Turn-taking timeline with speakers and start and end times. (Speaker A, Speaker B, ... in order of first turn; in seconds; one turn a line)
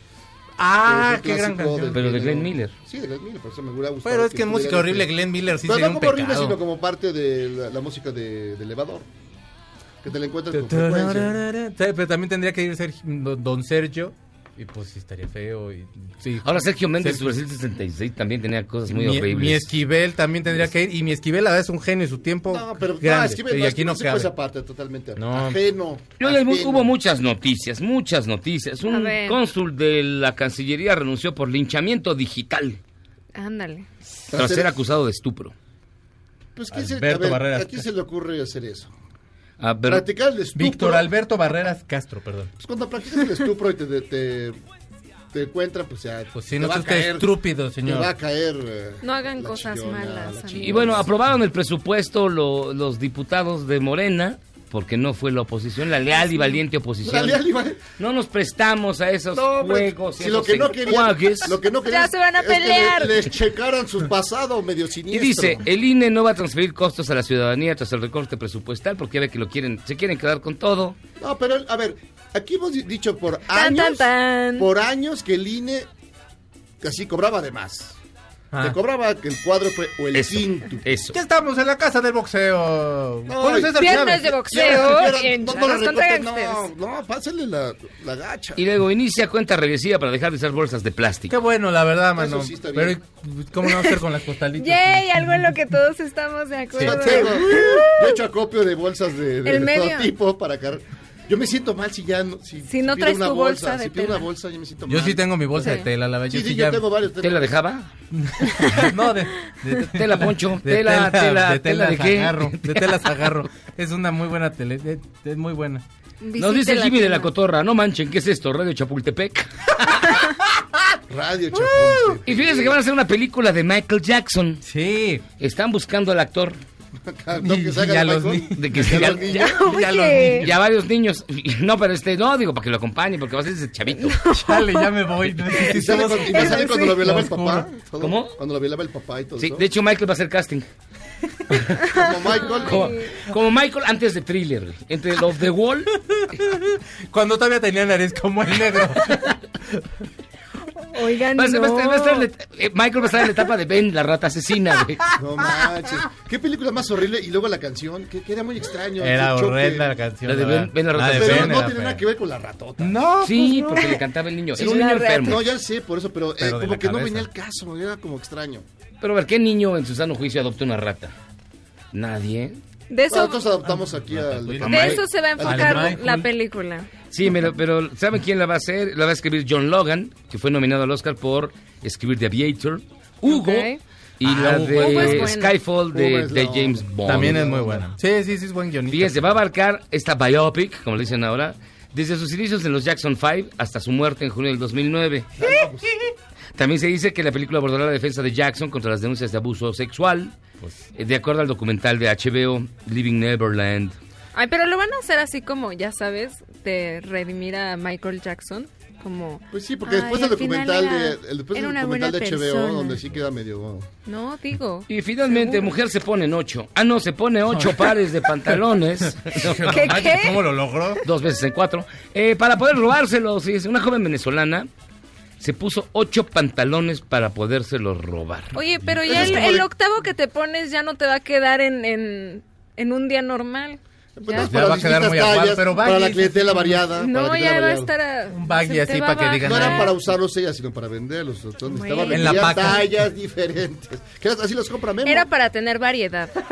Speaker A: 0.6-2.1
Speaker B: 0.8-5.1
Speaker C: 1.9-2.7
Speaker A: 4.0-6.6
Speaker B: 5.6-9.1
Speaker B: 10.0-11.3
Speaker A: 10.5-17.3
Speaker C: 16.4-19.7
Speaker A: 18.9-24.3
Speaker B: 22.5-26.9
Speaker A: 25.2-25.6
Speaker C: 26.2-32.8
Speaker D: 28.8-29.4
Speaker D: 33.3-33.9
Speaker C: 34.3-35.5
Speaker B: 34.3-34.7
Speaker B: 36.5-38.9
Speaker A: 36.7-37.8
Speaker C: 39.6-40.0
Speaker B: 39.9-41.1
Speaker A: 40.5-42.5
Speaker B: 42.6-44.6
Speaker B: 45.3-47.3
Speaker A: 46.3-48.1
Speaker B: 47.8-51.1
Speaker D: 49.0-51.0
Speaker C: 50.6-57.4
Speaker B: 57.0-57.8
Speaker C: 58.0-61.6
Speaker B: 59.3-65.6
Speaker D: 61.9-63.3
Speaker C: 65.1-71.0
Speaker B: 71.2-75.9
Speaker D: 73.5-74.7
Speaker B: 76.8-78.0
Speaker A: 78.5-78.8
Speaker B: 78.6-80.8
Speaker C: 80.1-81.2
Speaker A: 81.1-84.8
Speaker B: 83.3-88.6
Speaker D: 83.7-86.7
Speaker C: 88.5-91.3
Speaker A: 91.3-95.4
Speaker B: 92.1-93.0
Speaker D: 93.6-94.0
Speaker D: 94.6-98.0
Speaker A: 96.8-97.8
Speaker B: 96.8-105.7
Speaker D: 99.4-100.1
Speaker D: 102.7-104.2
Speaker A: 104.9-106.8
Speaker D: 105.6-105.9
Speaker B: 106.3-107.5
Speaker C: 107.2-107.9
Speaker A: 108.1-115.8
Speaker C: 109.9-113.3
Speaker D: 116.2-117.3
Speaker C: 116.4-120.1
Speaker B: 121.1-122.7
Speaker A: 121.5-122.2
Speaker C: 122.2-124.6
Speaker A: 124.6-125.2
Speaker C: 125.4-126.6
Speaker B: 127.0-129.6
Speaker A: 127.3-130.5
Speaker C: 128.6-134.2
Speaker D: 129.3-130.4
Speaker D: 133.9-134.9
Speaker A: 134.3-137.7
Speaker D: 135.5-137.1
Speaker B: 135.6-139.6
Speaker C: 138.0-138.3
Speaker C: 139.4-140.7
Speaker B: 141.9-142.9
Speaker D: 141.9-143.2
Speaker C: 142.4-145.9
Speaker A: 146.1-149.8
Speaker D: 150.9-152.2
Speaker C: 151.3-155.1
Speaker B: 155.2-159.9
Speaker A: 159.0-162.0
Speaker C: 160.2-161.6
Speaker B: 161.0-163.0
Speaker A: 162.8-164.0
Speaker C: 163.2-165.4
Speaker B: 164.6-168.7
Speaker D: 164.6-165.4
Speaker A: 166.4-167.3
Speaker C: 169.0-171.1
Speaker C: 171.9-172.6
Speaker D: 172.9-173.4
Speaker B: 173.1-176.0
Speaker A: 173.6-176.3
Speaker D: 174.6-176.9
Speaker C: 177.1-183.7
Speaker D: 183.2-183.8
Speaker C: 184.2-187.4
Speaker A: 184.2-185.3
Speaker D: 184.8-185.5
Speaker B: 185.9-187.9
Speaker A: 187.0-189.3
Speaker C: 188.9-195.3
Speaker B: 195.4-195.9
Speaker C: 196.6-200.3
Speaker C: 200.9-203.9
Speaker D: 204.3-213.0
Speaker B: 209.5-213.9
Speaker D: 214.1-215.7
Speaker C: 214.9-220.1
Speaker A: 217.5-217.9
Speaker A: 219.2-221.0
Speaker D: 219.7-220.4
Speaker C: 221.0-224.7
Speaker C: 225.4-228.5
Speaker D: 228.5-234.5
Speaker B: 229.0-229.7
Speaker B: 234.2-237.9
Speaker A: 234.3-236.9
Speaker D: 237.0-239.9
Speaker A: 238.3-240.0
Speaker B: 239.4-245.3
Speaker D: 241.7-242.8
Speaker A: 242.1-243.0
Speaker D: 245.0-246.4